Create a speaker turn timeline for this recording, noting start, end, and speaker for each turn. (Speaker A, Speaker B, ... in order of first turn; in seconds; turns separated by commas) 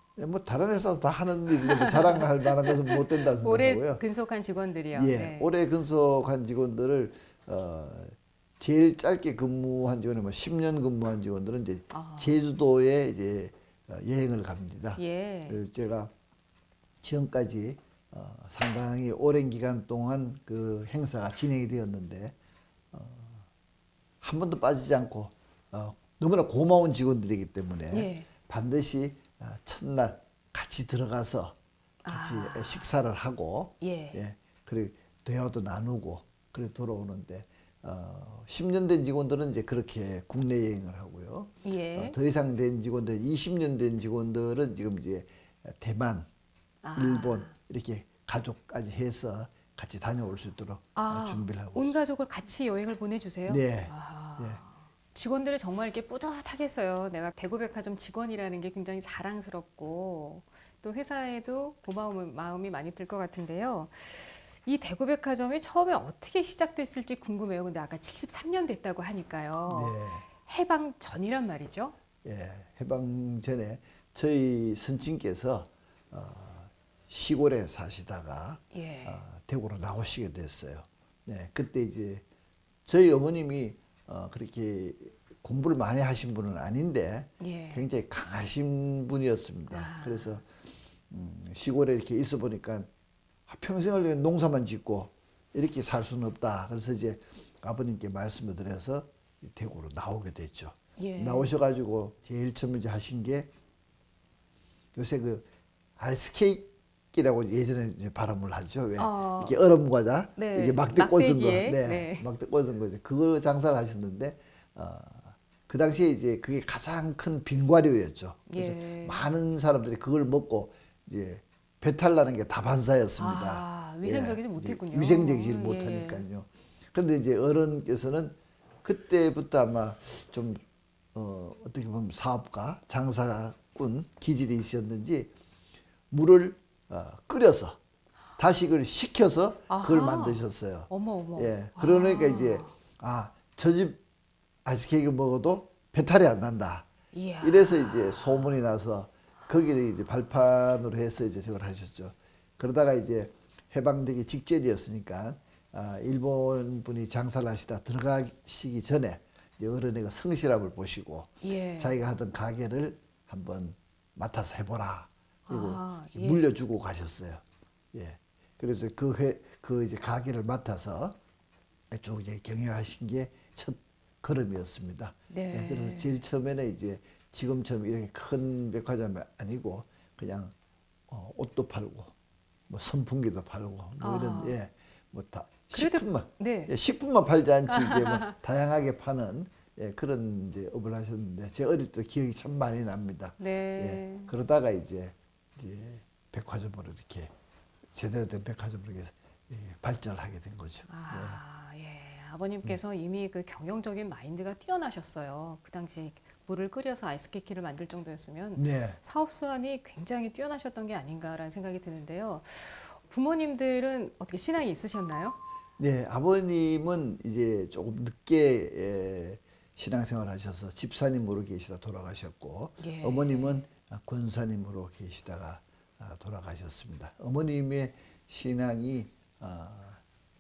Speaker A: 0.2-4.0, Speaker B: 1.7-2.2, Speaker B: 2.9-5.5, Speaker A: 4.9-16.1, Speaker B: 11.9-12.4, Speaker B: 15.0-15.6, Speaker A: 17.0-22.3, Speaker A: 22.9-23.4, Speaker A: 24.2-46.3, Speaker B: 27.9-28.3, Speaker B: 32.0-32.9, Speaker B: 33.8-34.2, Speaker B: 41.6-42.2, Speaker B: 46.8-47.5, Speaker A: 46.9-51.9, Speaker B: 50.9-71.9, Speaker A: 53.5-54.6, Speaker A: 69.7-70.2, Speaker A: 72.2-82.2, Speaker B: 78.7-79.2, Speaker A: 82.8-90.5, Speaker B: 87.4-87.8, Speaker B: 89.7-90.4, Speaker A: 91.1-92.9, Speaker A: 93.5-103.5, Speaker B: 101.0-101.5, Speaker A: 104.9-105.5, Speaker A: 106.0-130.6, Speaker B: 109.0-109.5, Speaker B: 110.4-112.3, Speaker B: 118.5-119.2, Speaker B: 123.2-126.2, Speaker A: 131.1-135.3, Speaker A: 136.1-137.8, Speaker A: 138.4-144.0, Speaker B: 139.7-142.7, Speaker A: 144.6-146.9, Speaker B: 147.1-148.5, Speaker A: 147.4-171.2, Speaker B: 161.4-162.0, Speaker B: 165.5-166.4, Speaker A: 171.9-180.5, Speaker B: 175.3-176.2, Speaker A: 181.1-182.1, Speaker A: 182.7-197.3, Speaker B: 184.0-184.6, Speaker B: 185.7-186.7, Speaker B: 187.7-188.3, Speaker B: 193.4-194.3, Speaker A: 197.9-201.4, Speaker B: 200.9-215.4, Speaker A: 208.6-209.0, Speaker A: 215.8-230.0, Speaker B: 222.8-223.7